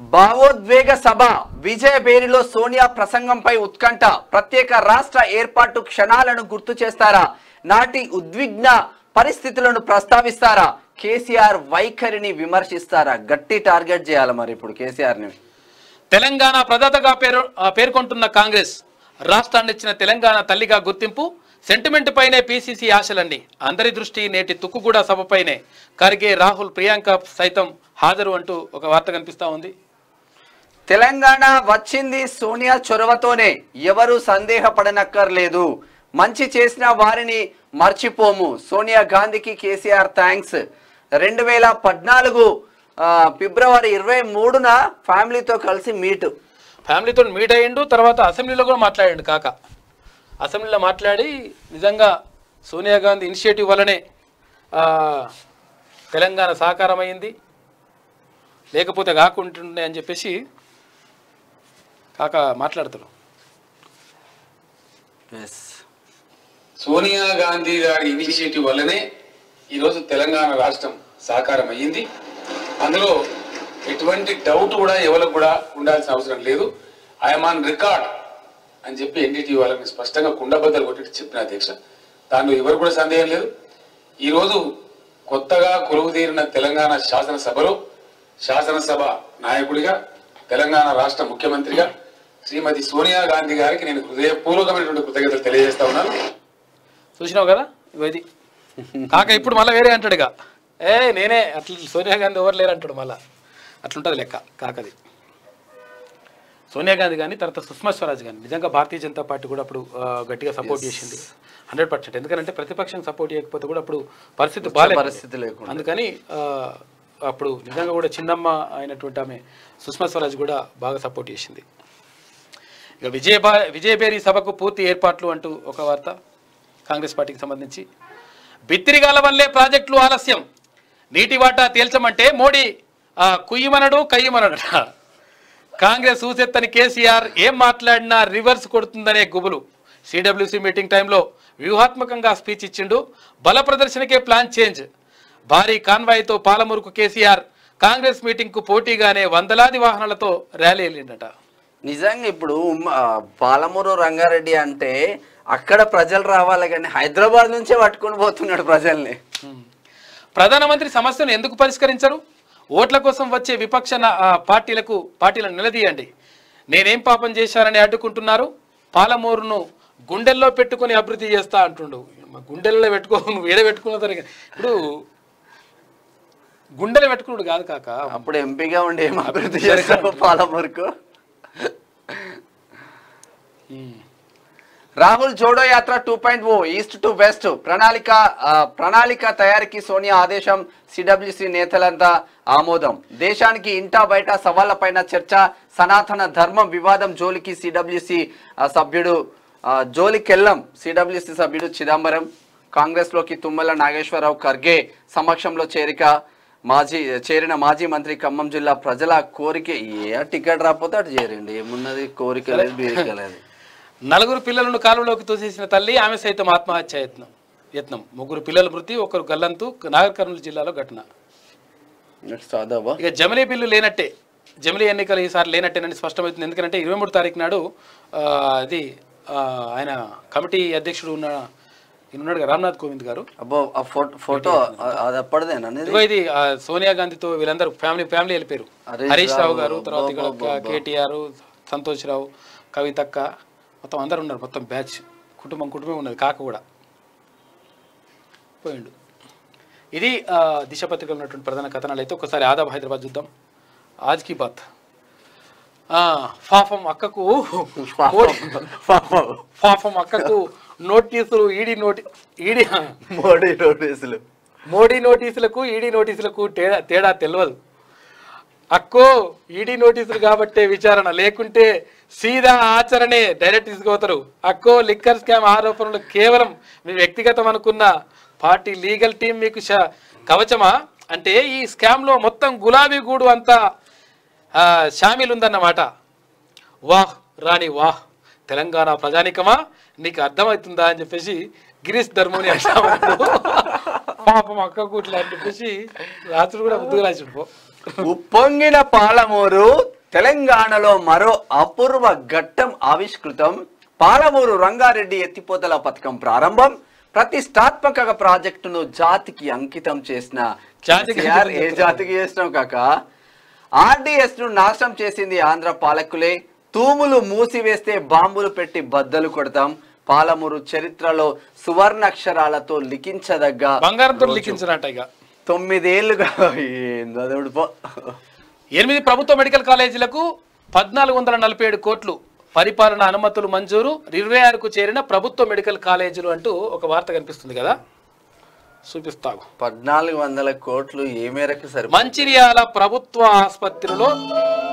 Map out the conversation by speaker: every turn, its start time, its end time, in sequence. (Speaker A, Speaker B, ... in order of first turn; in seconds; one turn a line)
Speaker A: 0.1-15.3
Speaker B: 16.1-29.7
Speaker A: 30.9-40.6
Speaker A: 41.2-42.5
Speaker A: 43.0-46.3
Speaker B: 46.9-49.5
Speaker B: 50.4-52.1
Speaker B: 52.6-54.0
Speaker B: 54.8-55.3
Speaker B: 56.1-57.3
Speaker B: 58.7-60.4
Speaker B: 62.2-63.1
Speaker A: 65.3-65.8
Speaker C: 66.8-69.0
Speaker C: 69.7-72.0
Speaker C: 72.8-73.1
Speaker C: 73.8-76.7
Speaker C: 77.2-78.1
Speaker C: 78.8-81.7
Speaker C: 82.3-83.5
Speaker C: 84.2-84.6
Speaker C: 85.3-87.8
Speaker C: 88.4-90.0
Speaker C: 90.5-91.9
Speaker C: 92.5-96.1
Speaker B: 97.2-98.2
Speaker A: 98.9-99.5
Speaker B: 99.1-100.3
Speaker B: 100.8-103.2
Speaker B: 103.8-104.9
Speaker B: 106.7-121.6
Speaker A: 110.6-111.2
Speaker A: 114.6-115.8
Speaker B: 123.0-126.1
Speaker B: 126.9-127.8
Speaker B: 128.7-130.4
Speaker B: 131.1-132.7
Speaker B: 133.2-134.8
Speaker B: 135.8-144.8
Speaker B: 145.5-151.3
Speaker A: 151.9-155.0
Speaker A: 155.5-159.2
Speaker B: 160.3-162.2
Speaker B: 162.8-166.1
Speaker B: 166.7-175.0
Speaker B: 176.8-178.3
Speaker A: 178.1-180.9
Speaker B: 179.2-180.3
Speaker A: 181.6-182.3
Speaker B: 183.7-184.0
Speaker A: 185.0-213.4
Speaker B: 212.5-213.1
Speaker B: 214.1-221.0
Speaker A: 222.3-223.0
Speaker B: 223.0-224.1
Speaker B: 224.6-227.6
Speaker B: 228.1-231.4
Speaker B: 232.1-233.2
Speaker A: 233.4-236.0
Speaker B: 234.3-235.0
Speaker B: 235.8-243.2
Speaker A: 238.9-240.8
Speaker B: 243.8-246.6
Speaker B: 248.6-248.9
Speaker B: 249.9-253.3
Speaker B: 254.1-254.7
Speaker B: 255.9-262.9
Speaker A: 257.8-259.2
Speaker A: 263.1-264.2
Speaker B: 264.7-267.6
Speaker B: 268.7-283.6
Speaker B: 284.6-285.9
Speaker B: 286.9-297.5
Speaker A: 292.9-293.7
Speaker A: 298.0-312.8
Speaker B: 310.9-312.0
Speaker A: 313.8-324.6
Speaker B: 323.8-325.1
Speaker A: 325.5-328.2
Speaker B: 328.8-337.8
Speaker B: 338.9-339.4
Speaker A: 339.6-342.3
Speaker B: 341.9-344.1